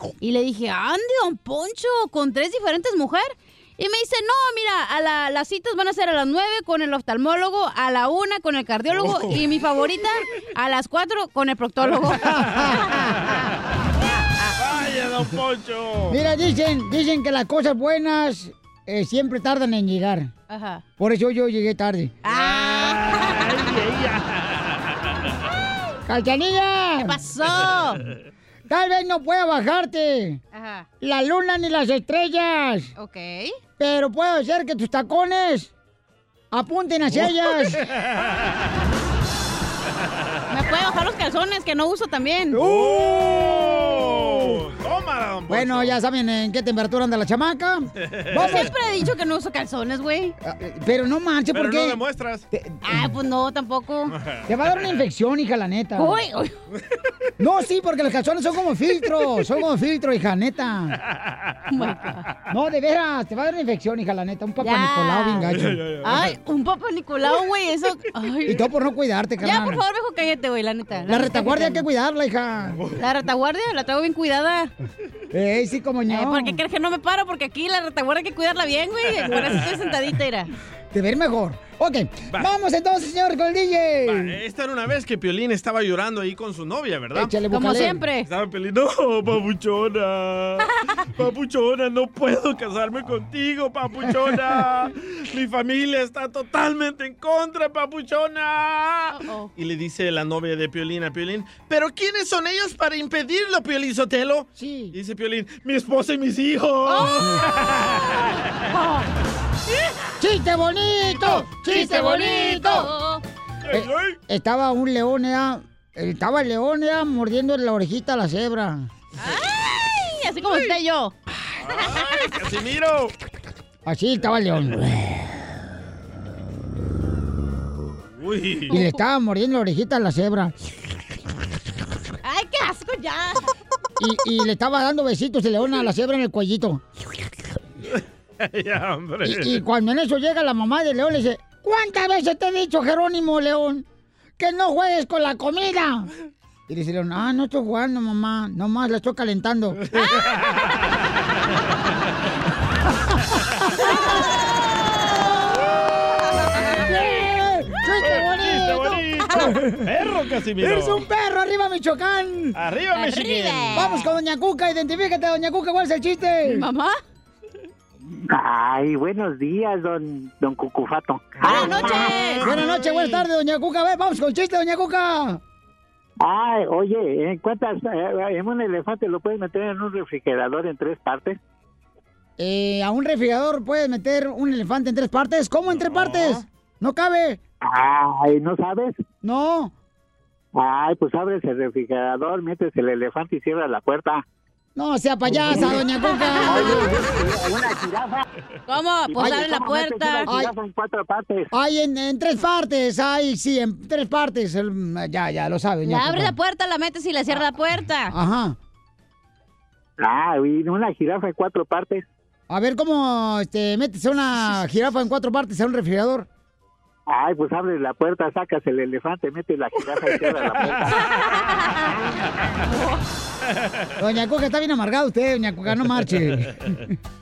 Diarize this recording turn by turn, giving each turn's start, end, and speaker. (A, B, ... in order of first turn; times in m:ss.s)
0:00.2-0:13.3 A
0:09.0-0:09.5 B
0:12.1-0:13.2 C
0:12.4-0:12.6 B
0:14.1-0:14.6 A
0:14.6-0:16.2 B
0:16.1-0:20.3 C
0:20.5-0:20.8 A
0:21.0-0:22.2 C
0:22.2-0:23.6 A
0:22.3-0:24.9 B
0:26.1-0:27.2 C
0:27.0-0:28.1 A
0:28.7-0:30.4 C
0:30.5-0:30.9 A
0:31.0-0:32.9 C
0:33.0-0:33.6 A
0:33.8-0:35.7 C
0:36.5-0:37.8 C
0:37.1-0:38.3 B
0:40.5-0:42.6 A
0:42.5-0:44.6 C
0:42.6-0:46.0 B
0:45.5-0:48.7 C
0:48.0-0:48.7 B
0:48.4-0:50.4 A
0:50.4-0:52.0 C
0:51.5-0:52.4 B
0:52.5-0:53.1 C
0:52.9-0:54.1 A
0:54.1-0:54.4 B
0:54.5-0:56.2 C
0:56.0-0:56.5 A
0:57.4-1:01.0 C
1:01.2-1:01.6 B
1:01.7-1:02.3 A
1:02.5-1:05.8 C
1:04.6-1:05.5 A
1:05.5-1:06.3 B
1:06.0-1:08.7 A
1:08.4-1:09.8 C
1:09.4-1:11.9 A
1:11.1-1:12.8 C
1:13.0-1:14.7 A
1:15.3-1:16.6 C
1:16.1-1:20.5 A
1:19.2-1:19.6 B
1:20.9-1:24.4 C
1:24.1-1:27.4 B
1:27.1-1:28.0 C
1:27.5-1:28.3 A
1:28.2-1:48.2 B
1:39.1-1:39.5 A
1:44.6-1:45.0 C
1:46.9-1:47.4 A
1:48.7-1:49.0 A
1:50.2-1:52.9 C
1:51.3-1:53.2 A
1:53.7-1:54.2 B
1:53.7-1:58.9 C
1:59.2-2:01.1 A
2:01.6-2:03.1 B
2:03.9-2:05.3 C
2:08.2-2:08.8 B
2:08.7-2:10.6 C
2:08.7-2:09.0 A
2:12.2-2:13.5 A
2:14.0-2:16.8 C
2:17.9-2:19.6 B
2:19.2-2:23.8 C
2:24.4-2:26.1 C
2:26.7-2:29.8 C
2:29.9-2:30.8 B
2:36.7-2:39.8 C
2:38.0-2:41.0 B
2:40.6-2:42.6 C
2:42.6-2:43.8 B
2:42.9-2:44.1 A
2:43.7-2:46.7 C
2:46.4-2:47.0 A
2:48.3-2:51.7 D
2:51.4-2:53.2 B
2:51.5-2:52.5 A
2:51.5-2:55.4 C
2:56.2-3:01.4 D
3:02.4-3:07.4 C
3:05.8-3:06.4 B
3:07.6-3:08.9 D
3:09.2-3:09.7 C
3:10.6-3:14.2 D
3:14.8-3:17.0 C
3:15.4-3:15.7 D
3:16.1-3:16.8 A
3:16.4-3:18.2 D
3:18.7-3:20.3 A
3:19.1-3:21.5 D
3:19.2-3:19.5 C
3:20.3-3:20.5 C
3:21.5-3:26.4 C
3:25.8-3:28.1 A
3:28.1-3:28.6 C
3:30.0-3:32.0 D
3:32.5-3:36.3 C
3:37.1-3:41.0 D
3:41.6-3:41.9 A
3:42.7-3:43.0 A
3:44.0-3:46.9 C